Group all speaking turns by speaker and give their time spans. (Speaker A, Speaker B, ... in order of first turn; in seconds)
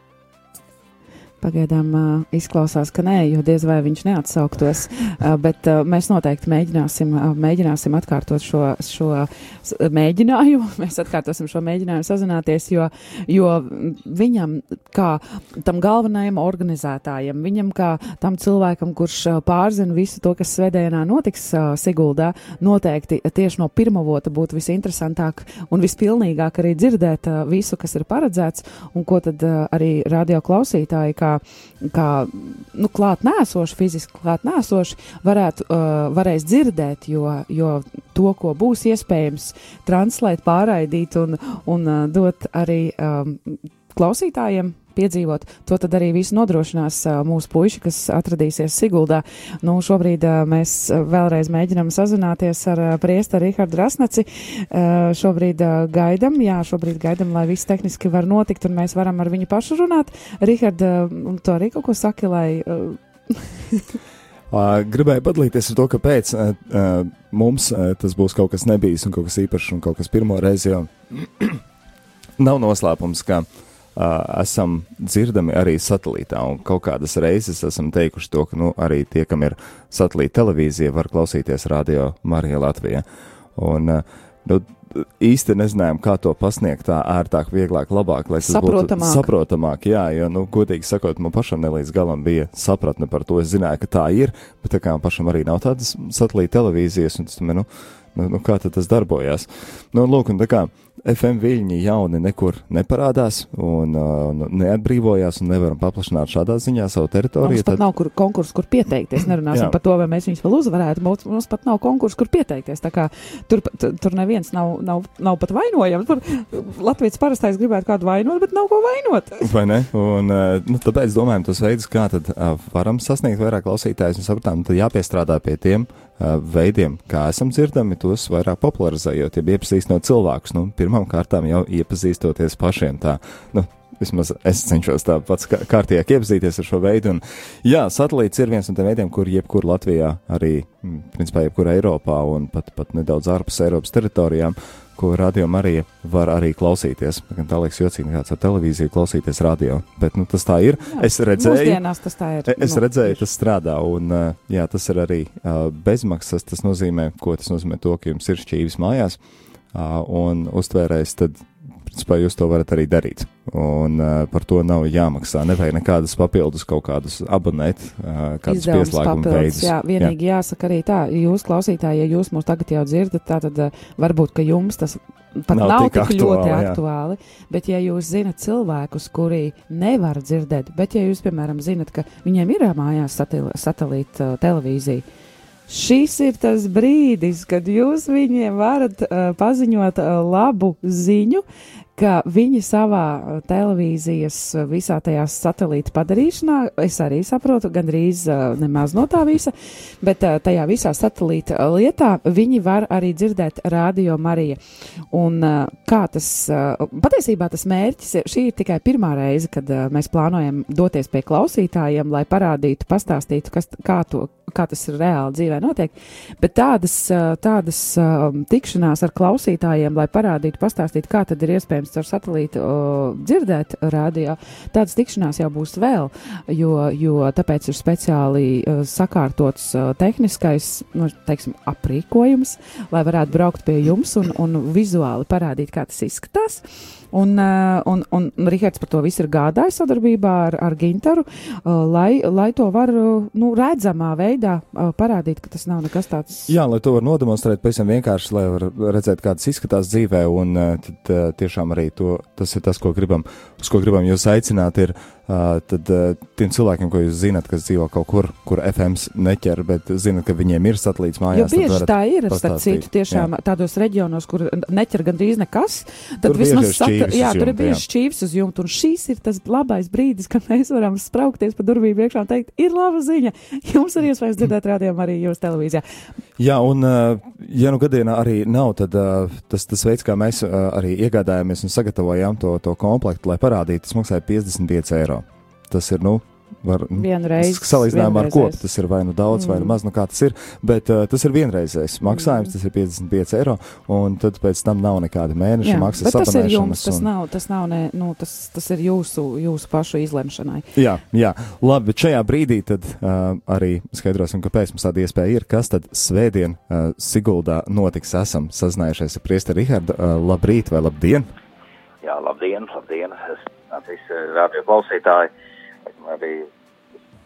Speaker A: 1.4-64.0, 88.4-89.3, 107.4-119.5, 150.9-153.2, 168.5-185.1, 185.7-191.4, 191.9-204.6, 205.1-246.5, 261.3-275.8, 286.9-288.6, 289.3-289.8, 292.1-292.5, 295.6-300.7
Speaker B: 64.5-71.6, 72.4-83.0, 83.6-107.8, 109.5-109.8, 119.4-151.8, 152.5-159.2, 159.7-170.2, 175.5-176.8, 246.5-263.3, 266.2-267.8, 276.4-297.1, 300.8-311.3
Speaker C: 312.0-315.3, 315.9-316.5